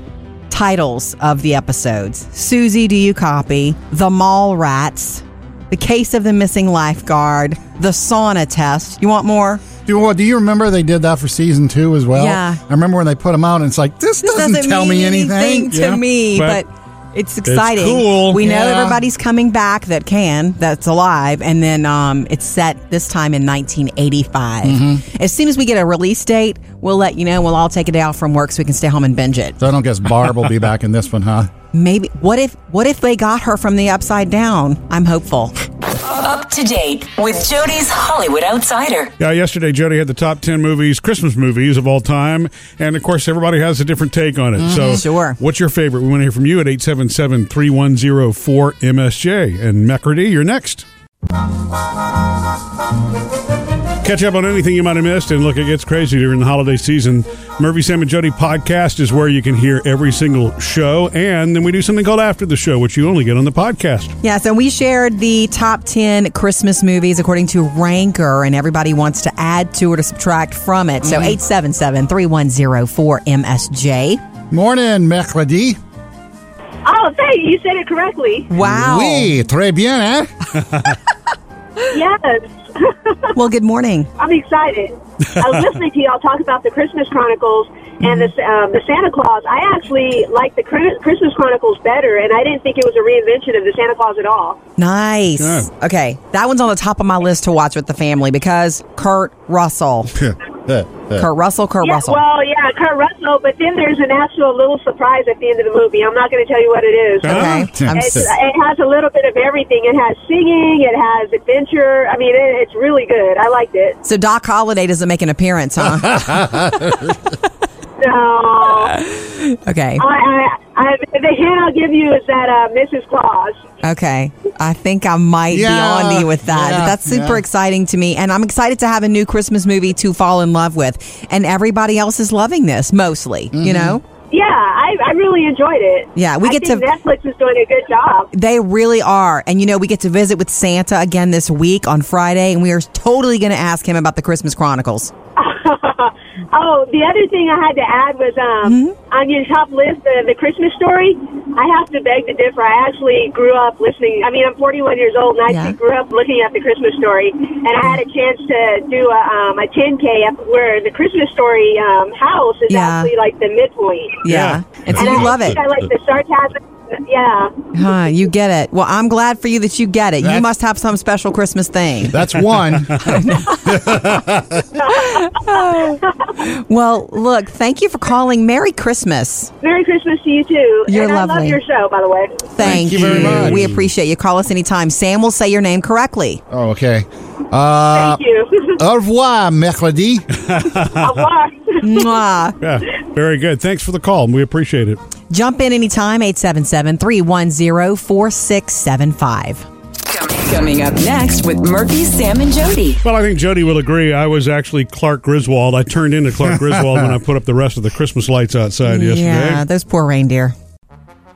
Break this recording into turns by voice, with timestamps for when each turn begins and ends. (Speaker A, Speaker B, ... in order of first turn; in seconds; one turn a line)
Speaker A: 0.5-9.6
Speaker B: 9.8-15.9
Speaker A: 12.1-12.6
Speaker A: 14.2-29.6
Speaker C: 15.8-16.6
Speaker C: 17.4-18.4
Speaker B: 18.4-19.0
Speaker B: 24.6-25.0
Speaker B: 29.6-31.5
Speaker A: 31.7-35.5
Speaker D: 35.9-39.1
Speaker C: 39.2-50.8
Speaker B: 44.6-44.9
Speaker A: 44.7-45.4
Speaker C: 54.0-64.2
Speaker A: 64.2-74.2
Speaker B: 71.0-71.3
Speaker B: 74.5-75.8
Speaker E: 76.8-78.5
Speaker A: 78.5-79.3
Speaker B: 78.6-80.9
Speaker E: 81.9-83.3
Speaker A: 83.3-84.1
Speaker E: 84.2-94.6
Speaker A: 94.8-100.2
Speaker C: 95.4-95.7
Speaker B: 100.1-101.2
Speaker A: 101.1-102.2
Speaker E: 101.8-114.0
Speaker C: 107.2-107.7
Speaker A: 107.2-107.9
Speaker B: 107.3-108.3
Speaker A: 114.0-116.5
Speaker B: 116.0-117.2
Speaker E: 118.0-119.0
Speaker A: 119.0-120.0
Speaker E: 120.0-123.6
Speaker A: 123.8-134.0
Speaker B: 125.5-127.4
Speaker B: 133.5-134.0
Speaker E: 134.3-138.3
Speaker A: 136.1-136.8
Speaker A: 138.3-145.1
Speaker E: 145.3-164.2
Speaker A: 148.6-148.9
Speaker A: 155.5-155.8
Speaker A: 162.7-163.1
Speaker A: 164.2-165.6
Speaker C: 164.3-164.6
Speaker E: 164.9-167.6
Speaker A: 167.7-172.2
Speaker B: 172.1-174.7
Speaker A: 173.0-174.0
Speaker A: 174.8-179.5
Speaker E: 179.6-182.5
Speaker A: 180.9-181.6
Speaker A: 182.5-186.4
Speaker B: 182.6-183.9
Speaker C: 182.8-183.7
Speaker B: 186.5-188.2
Speaker E: 187.8-188.8
Speaker B: 188.8-190.2
Speaker C: 190.3-191.2
Speaker E: 190.9-192.2
Speaker A: 191.8-192.6
Speaker C: 192.6-195.0
Speaker A: 195.3-199.7
Speaker D: 200.0-203.0
Speaker C: 203.0-209.6
Speaker B: 206.4-207.2
Speaker A: 208.8-210.5